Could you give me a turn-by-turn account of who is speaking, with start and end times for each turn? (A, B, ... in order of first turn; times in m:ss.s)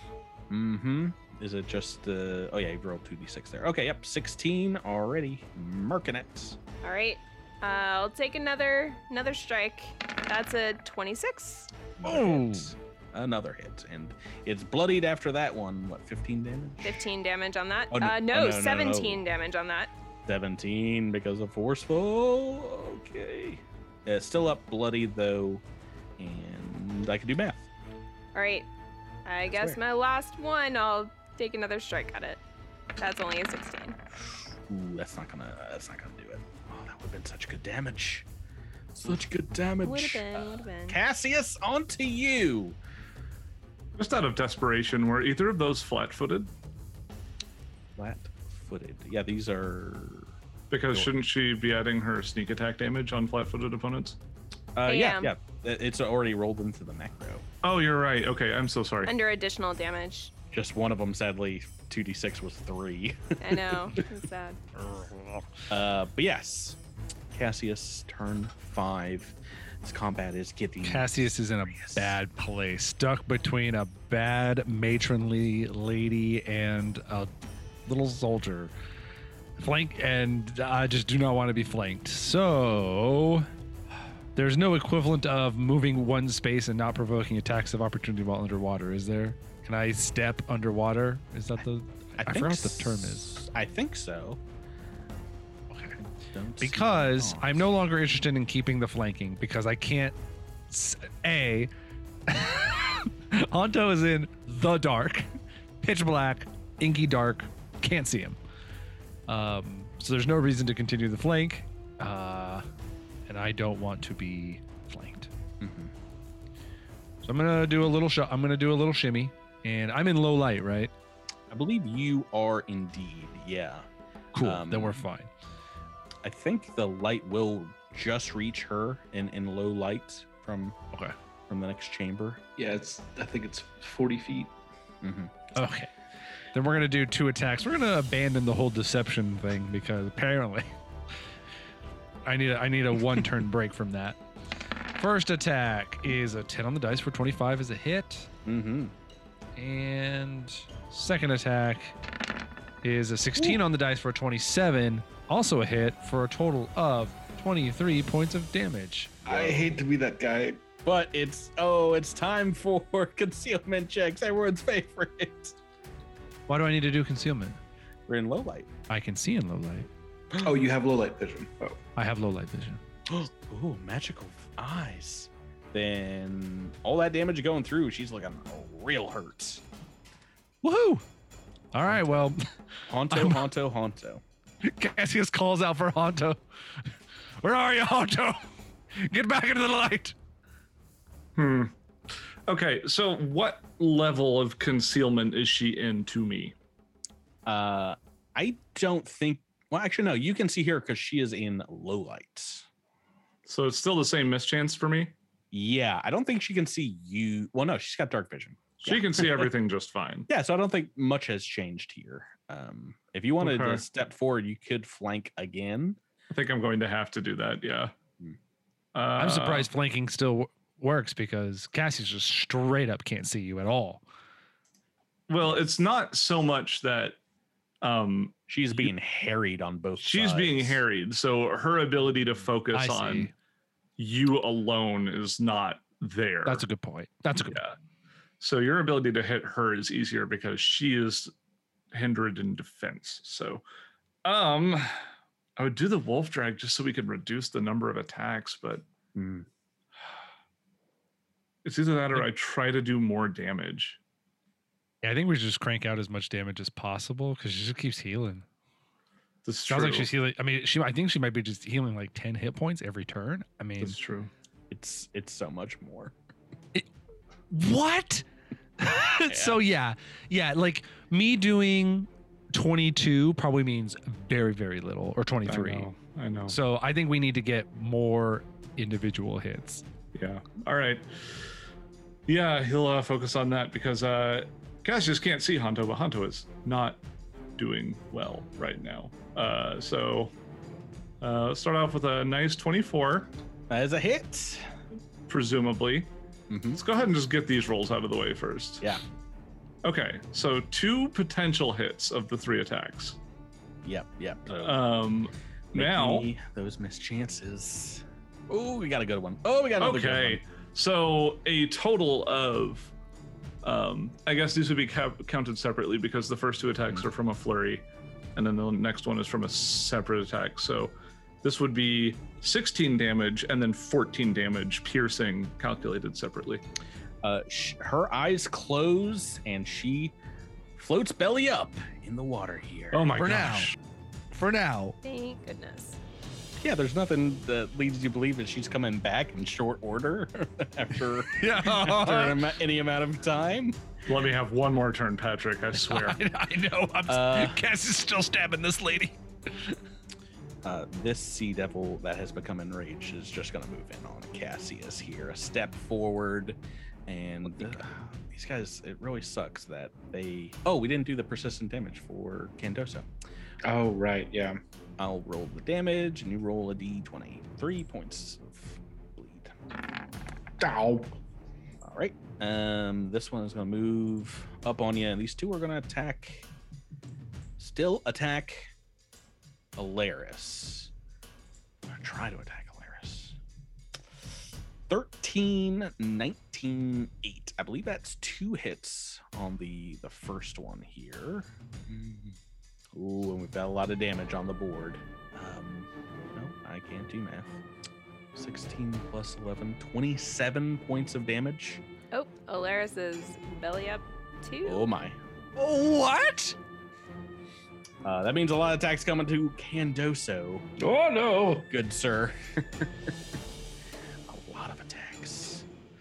0:00.5-0:06.6 A
0:06.8-0:11.7 B
0:12.0-0:17.1 A
0:12.0-0:12.7 C
0:16.8-0:19.9 B
0:17.9-0:19.2 A
0:20.3-0:25.6 A
0:26.2-0:27.6 A
0:28.3-0:28.7 B
0:29.2-0:32.4 B
0:29.4-0:29.8 A
0:33.0-0:34.0 B
0:34.7-0:38.3 A
0:38.9-0:42.8 A
0:39.8-0:41.0 B
0:43.9-0:46.5 D
0:48.0-0:50.3 A
0:50.7-0:54.2 D
0:54.8-0:57.4 A
0:54.9-0:55.3 B
0:57.6-0:59.1 D
0:59.0-1:00.3 B
1:00.5-1:04.0 A
1:03.4-1:04.6 B
1:04.8-1:05.5 C
1:05.7-1:06.8 A
1:07.3-1:12.2 A
1:10.8-1:17.3 C
1:17.8-1:18.7 C
1:19.6-1:23.5 C
1:24.3-1:33.4 C
1:32.2-1:34.4 A
1:35.7-1:36.0 C
1:36.2-1:37.6 A
1:36.6-1:40.2 C
1:40.7-1:41.7 C
1:42.3-1:48.4 C
1:49.3-1:52.7 C
1:53.3-1:55.3 C
1:55.6-1:55.9 A
1:57.2-2:00.9 C
2:01.5-2:03.8 A
2:04.3-2:05.3 C
2:04.4-2:05.0 A
2:06.2-2:10.8 A
2:11.5-2:12.4 A
2:12.6-2:14.5 E
2:15.0-2:15.3 A
2:15.5-2:15.9 C
2:16.5-2:20.7 C
2:22.2-2:24.2 C
2:24.9-2:28.3 C
2:28.4-2:28.9 A
2:29.6-2:32.0 C
2:32.8-2:39.2 C
2:39.2-2:39.7 A
2:39.2-2:40.6 E
2:40.8-2:45.6 A
2:46.5-2:47.6 C
2:48.1-2:48.7 A
2:48.9-2:49.9 C
2:50.4-2:51.8 E
2:52.0-2:52.8 C
2:53.1-2:59.6 A
3:00.6-3:01.0 C
3:01.7-3:02.4 C
3:01.9-3:02.2 A
3:02.9-3:04.2 A
3:03.1-3:03.4 C
3:04.6-3:06.4 C
3:07.4-3:08.4 C
3:09.0-3:10.1 C
3:11.4-3:11.7 D
3:12.5-3:16.5 D
3:17.4-3:22.7 A
3:23.4-3:25.1 D
3:25.5-3:29.5 A
3:28.8-3:30.3 D
3:30.3-3:36.0 A
3:33.4-3:33.8 D
3:36.3-3:37.9 D
3:38.9-3:39.7 D
3:39.2-3:44.0 C
3:45.3-3:47.2 D
3:47.8-3:48.4 D
3:48.5-3:50.8 A
3:50.0-3:53.3 D
3:52.7-3:53.3 C
3:54.0-3:56.6 D
3:56.4-3:57.6 C
3:57.5-3:57.8 D
3:58.4-4:01.3 D
4:01.9-4:03.6 D
4:04.2-4:05.0 D
4:05.6-4:08.8 D
4:09.1-4:09.5 A
4:11.6-4:14.0 D
4:15.0-4:18.4 C
4:19.4-4:20.1 D
4:19.7-4:24.0 C
4:23.8-4:24.3 D
4:24.7-4:26.1 A
4:27.5-4:28.2 C
4:28.8-4:35.9 C
4:29.3-4:29.6 A
4:35.4-4:36.6 D
4:36.5-4:39.8 C
4:40.1-4:41.1 D
4:42.3-4:47.0 D
4:47.6-4:50.3 D
4:51.2-4:53.3 D
4:53.7-4:54.6 A
4:55.3-4:56.1 D
4:56.5-4:56.8 A
4:56.7-4:58.9 D
4:59.8-5:03.2 D
5:03.8-5:04.8 A
5:04.6-5:06.3 D
5:05.7-5:10.4 A
5:09.8-5:12.9 D
5:13.6-5:26.6 D
5:27.2-5:30.1 A
5:30.8-5:33.2 A
5:32.9-5:33.7 D
5:33.2-5:33.7 C
5:34.3-5:35.0 C
5:35.0-5:36.0 B
5:36.6-5:43.8 A
5:41.4-5:42.5 C
5:44.0-5:46.2 D
5:45.8-5:49.8 C
5:47.1-5:47.6 A
5:50.6-6:03.1 A
5:57.4-5:57.9 E
6:03.6-6:04.6 E
6:05.0-6:09.5 A
6:10.6-6:11.1 E
6:11.8-6:16.5 A
6:17.6-6:18.7 A
6:19.8-6:20.9 A
6:21.9-6:23.4 A
6:24.9-6:32.4 A
6:32.9-6:37.6 A
6:38.3-6:41.8 A
6:42.1-6:44.9 B
6:44.6-6:45.2 A
6:45.7-6:46.5 C
6:48.0-6:50.7 A
6:50.8-6:51.7 E
6:51.7-6:52.9 A
6:54.3-6:55.6 A